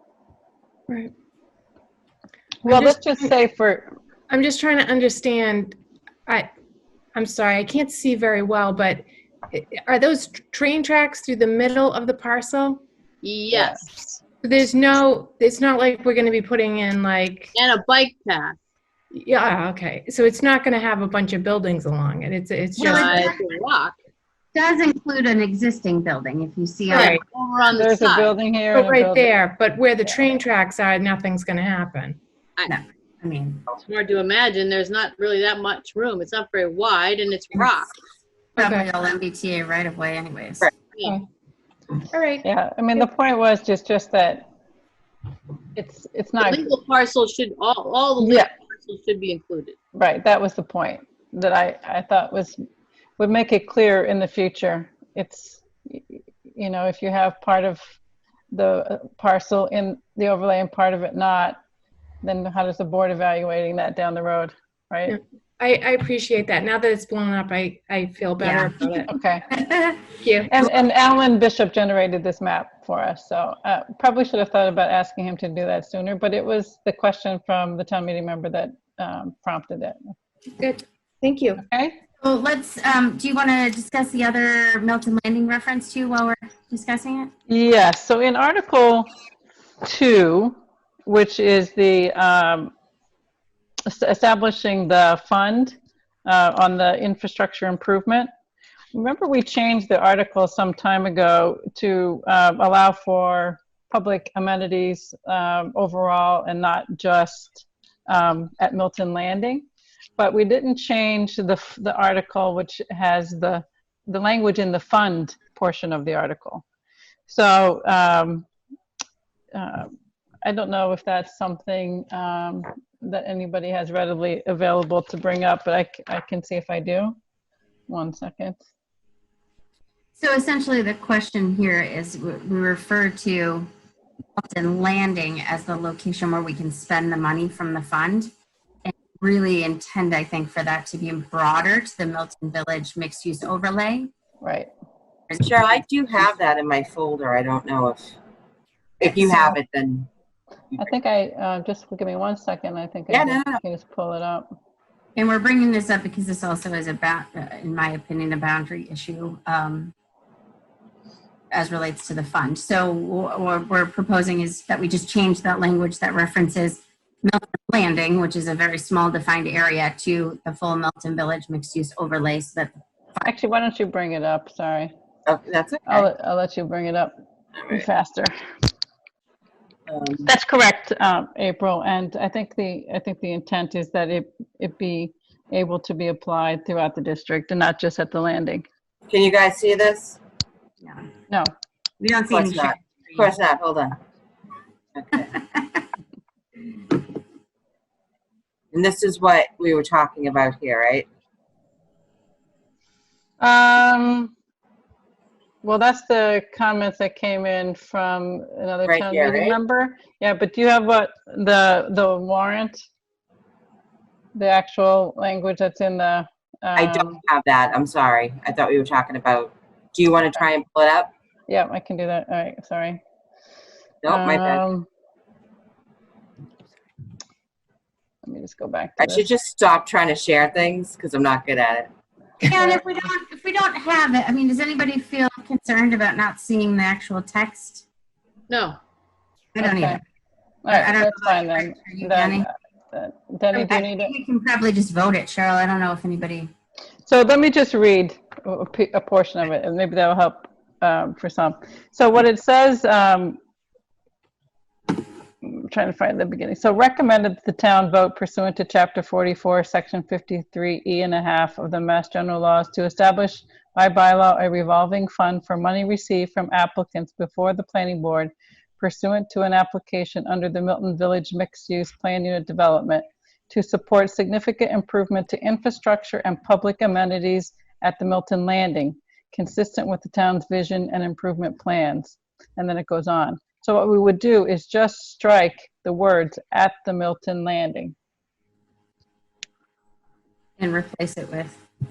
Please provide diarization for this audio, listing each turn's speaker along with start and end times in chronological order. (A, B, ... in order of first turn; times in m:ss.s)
0:02.6-0:03.9 A
0:02.7-0:03.1 B
0:04.3-0:05.7 B
0:07.1-0:12.8 B
0:13.2-0:13.9 C
0:13.5-0:14.2 A
0:14.4-0:17.5 B
0:17.5-0:18.6 C
0:19.1-0:23.2 B
0:22.8-0:23.4 D
0:22.8-0:24.0 C
0:24.5-0:27.2 D
0:26.9-0:27.2 B
0:26.9-0:28.3 C
0:27.7-0:29.3 A
0:28.7-0:32.2 B
0:30.0-0:30.3 A
0:32.7-0:33.6 D
0:33.8-0:37.9 C
0:38.6-0:38.8 B
0:38.6-0:40.7 D
0:42.1-0:42.4 B
0:42.4-0:44.4 A
0:45.8-0:46.7 A
0:46.4-0:49.8 C
0:48.2-0:48.5 A
0:49.9-0:52.6 A
0:53.2-0:57.9 A
0:58.5-1:01.6 A
1:02.2-1:05.2 A
1:05.1-1:09.1 B
1:08.4-1:10.1 D
1:09.1-1:09.4 A
1:10.2-1:10.5 B
1:10.5-1:20.0 A
1:20.6-1:21.6 B
1:21.6-1:22.0 A
1:22.2-1:27.3 D
1:27.5-1:29.1 A
1:29.8-1:32.7 A
1:33.8-1:35.7 A
1:36.2-1:38.3 A
1:38.9-1:49.7 A
1:50.2-1:56.6 A
1:57.3-1:58.5 A
1:59.5-1:59.9 A
2:00.4-2:07.2 A
2:07.9-2:08.6 A
2:10.2-2:13.7 D
2:14.4-2:18.3 D
2:18.8-2:24.1 D
2:24.4-2:24.7 A
2:25.4-2:28.2 E
2:29.0-2:30.1 E
2:30.8-2:34.5 A
2:33.1-2:33.6 E
2:35.2-2:39.9 D
2:41.5-2:53.3 D
2:53.2-2:54.9 A
2:55.2-2:56.1 E
2:55.9-2:57.1 A
2:57.7-2:58.3 A
2:59.9-3:00.3 E
3:00.2-3:08.6 A
3:09.1-3:10.2 E
3:10.8-3:11.1 D
3:12.0-3:13.3 D
3:12.3-3:14.0 E
3:14.9-3:15.3 E
3:15.4-3:15.8 D
3:18.7-3:21.1 E
3:23.4-3:24.3 A
3:25.6-3:32.8 A
3:28.8-3:29.6 E
3:34.3-3:37.2 A
3:36.7-3:41.1 E
3:41.5-3:43.0 A
3:44.0-3:44.6 E
3:44.1-3:44.8 A
3:48.2-3:49.2 A
3:49.0-3:51.9 E
3:52.4-3:57.8 D
3:58.5-3:58.8 C
3:59.5-4:00.0 D
3:59.6-4:00.0 A
4:00.6-4:04.1 A
4:00.7-4:02.5 D
4:03.5-4:06.5 D
4:07.0-4:13.4 A
4:15.4-4:47.9 A
4:50.6-4:51.6 D